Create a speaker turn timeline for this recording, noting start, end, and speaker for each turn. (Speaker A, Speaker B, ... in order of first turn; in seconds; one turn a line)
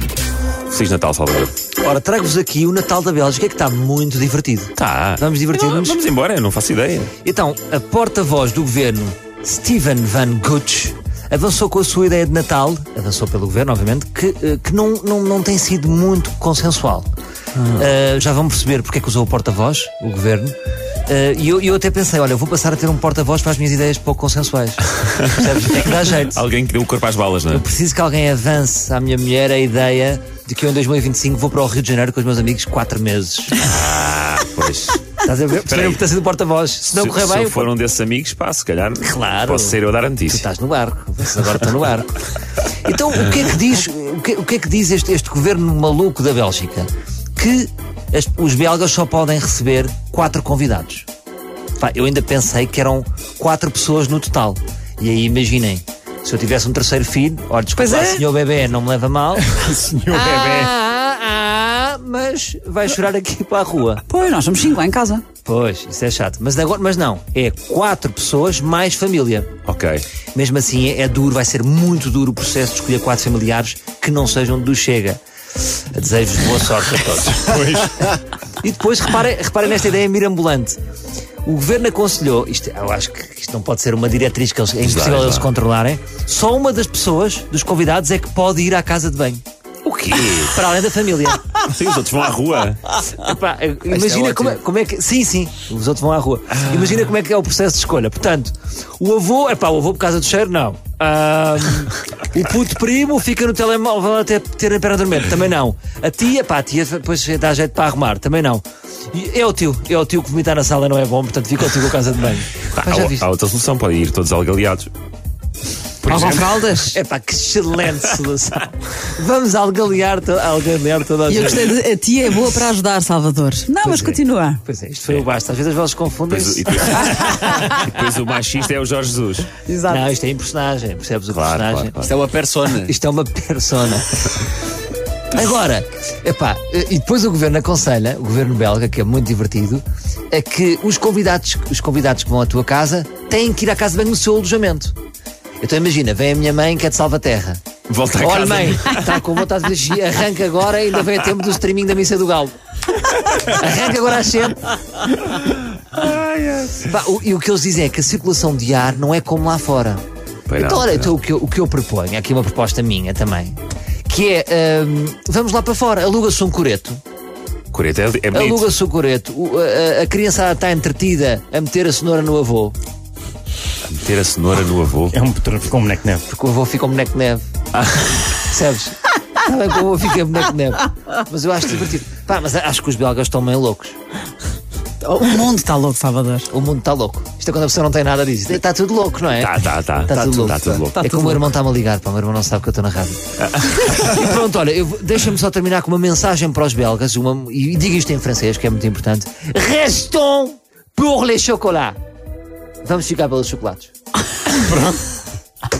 Speaker A: 0.7-1.5
Speaker B: 1.8-6.0
Speaker A: 4.8-7.1
Speaker B: 7.2-17.1
Speaker A: 17.6-17.9
Speaker B: 17.7-20.5
Speaker B: 21.1-26.4
Speaker A: 25.7-27.6
Speaker B: 27.5-33.5
Speaker A: 33.6-35.0
Speaker B: 35.2-37.7
Speaker A: 35.7-36.0
Speaker A: 36.9-40.4
Speaker B: 39.0-51.1
Speaker B: 51.8-64.0
Speaker C: 57.8-58.2
Speaker D: 59.6-60.7
Speaker C: 64.1-65.2
Speaker B: 65.4-69.5
Speaker A: 69.6-70.0
Speaker B: 70.3-75.2
Speaker B: 75.9-80.8
Speaker D: 77.5-78.1
Speaker B: 81.4-91.5
Speaker A: 84.8-85.5
Speaker A: 89.9-90.6
Speaker A: 91.6-92.9
Speaker B: 92.9-113.2
Speaker C: 94.0-94.5
Speaker A: 112.7-114.9
Speaker A: 116.0-116.6
Speaker C: 116.0-116.9
Speaker B: 116.8-121.7
Speaker C: 121.3-124.6
Speaker B: 123.8-127.8
Speaker A: 126.3-129.6
Speaker C: 129.6-130.0
Speaker B: 129.8-132.1
Speaker A: 131.3-132.9
Speaker B: 132.7-134.5
Speaker B: 135.3-144.9
Speaker B: 145.6-147.6
Speaker A: 147.9-149.2
Speaker B: 148.2-152.6
Speaker B: 153.3-154.8
Speaker A: 155.8-156.8
Speaker B: 156.8-160.0
Speaker A: 160.5-161.1
Speaker B: 160.6-167.0
Speaker A: 167.7-168.7
Speaker B: 168.3-172.8
Speaker A: 173.8-175.2
Speaker D: 175.1-176.2
Speaker B: 176.3-177.4
Speaker A: 177.7-178.2
Speaker B: 178.4-184.0
Speaker C: 185.0-186.5
Speaker B: 186.5-202.0
Speaker A: 189.3-191.0
Speaker C: 190.1-191.4
Speaker B: 202.8-203.9
Speaker D: 204.5-205.0